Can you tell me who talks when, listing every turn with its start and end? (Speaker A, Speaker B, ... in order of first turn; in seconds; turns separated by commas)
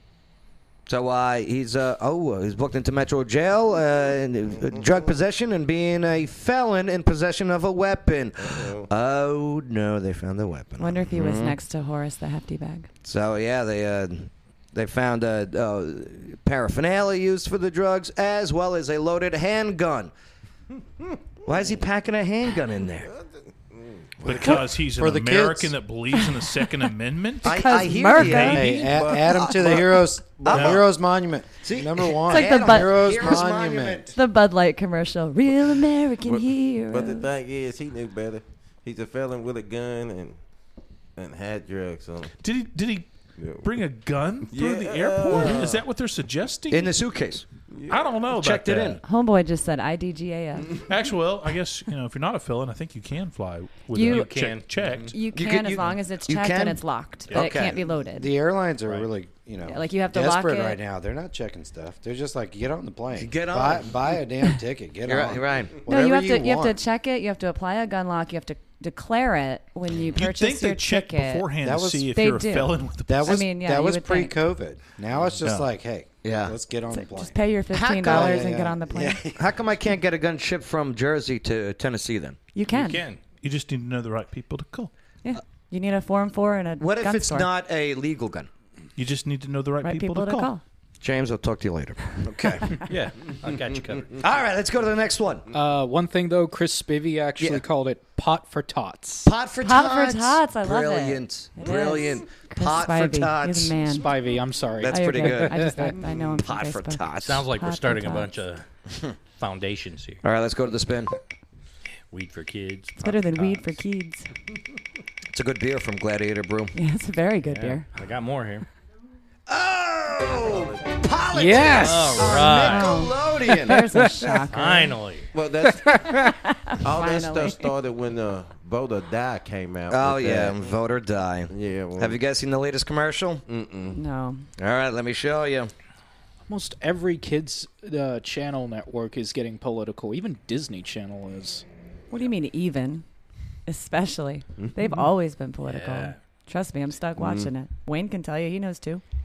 Speaker A: 0.9-11.6, Speaker B: 4.6-5.1, Speaker B: 8.4-8.9, Speaker C: 10.8-12.9, Speaker A: 13.0-20.1, Speaker A: 21.4-23.1, Speaker B: 23.1-24.2, Speaker D: 24.2-25.7, Speaker E: 24.2-28.8, Speaker A: 27.4-28.7, Speaker C: 27.4-28.9, Speaker D: 28.3-34.2, Speaker B: 28.8-30.7, Speaker A: 29.3-30.8, Speaker E: 30.5-30.8, Speaker A: 31.6-34.1, Speaker C: 32.3-33.5, Speaker C: 34.1-37.3, Speaker B: 36.3-40.4, Speaker B: 41.2-42.3, Speaker E: 42.4-43.1, Speaker B: 43.4-43.8, Speaker E: 43.6-46.9, Speaker B: 44.5-45.8, Speaker A: 45.3-45.7, Speaker A: 46.7-47.5, Speaker B: 47.7-48.2, Speaker E: 47.9-49.0, Speaker A: 48.3-49.0, Speaker C: 49.0-50.8, Speaker E: 50.9-55.1, Speaker C: 53.9-54.4, Speaker F: 54.1-54.7, Speaker B: 54.8-55.1, Speaker C: 55.1-58.3, Speaker A: 55.3-56.8, Speaker A: 57.3-57.8, Speaker D: 58.1-66.8, Speaker C: 59.7-60.8, Speaker A: 63.1-64.0, Speaker A: 65.1-65.9, Speaker C: 65.9-71.5, Speaker E: 70.1-73.5, Speaker D: 71.6-72.2, Speaker C: 72.1-74.4, Speaker D: 73.1-79.5, Speaker E: 75.4-75.7, Speaker A: 76.2-76.6, Speaker C: 76.9-79.2, Speaker A: 77.7-78.5, Speaker A: 79.3-82.4, Speaker C: 82.5-83.0, Speaker F: 82.7-83.2, Speaker E: 83.4-84.9, Speaker C: 85.2-87.5, Speaker A: 86.8-88.5, Speaker E: 89.0-90.5, Speaker C: 89.8-90.6, Speaker A: 91.0-92.7, Speaker F: 92.9-94.2, Speaker A: 94.2-95.5, Speaker G: 95.5-99.3, Speaker A: 99.2-103.8, Speaker C: 99.6-104.2, Speaker G: 104.0-106.0, Speaker A: 104.8-107.5, Speaker C: 104.9-108.3, Speaker F: 107.2-108.7, Speaker F: 109.4-110.2, Speaker A: 110.2-111.2, Speaker F: 112.1-113.6, Speaker C: 113.0-114.3, Speaker A: 115.3-116.8, Speaker C: 116.8-117.9, Speaker F: 117.5-118.7, Speaker A: 119.5-123.8, Speaker B: 120.3-121.0, Speaker G: 121.3-122.3, Speaker F: 121.8-123.0, Speaker C: 122.6-125.0, Speaker G: 123.7-124.3, Speaker F: 124.5-125.3, Speaker B: 125.3-126.0, Speaker G: 125.7-126.3, Speaker C: 126.1-127.7, Speaker B: 126.8-130.7, Speaker A: 129.9-133.4, Speaker B: 131.5-132.2, Speaker B: 133.5-134.0, Speaker C: 133.9-134.5, Speaker A: 134.6-135.7, Speaker G: 136.5-141.6, Speaker C: 142.1-143.1, Speaker C: 143.7-149.0, Speaker F: 145.6-146.2, Speaker B: 147.2-147.5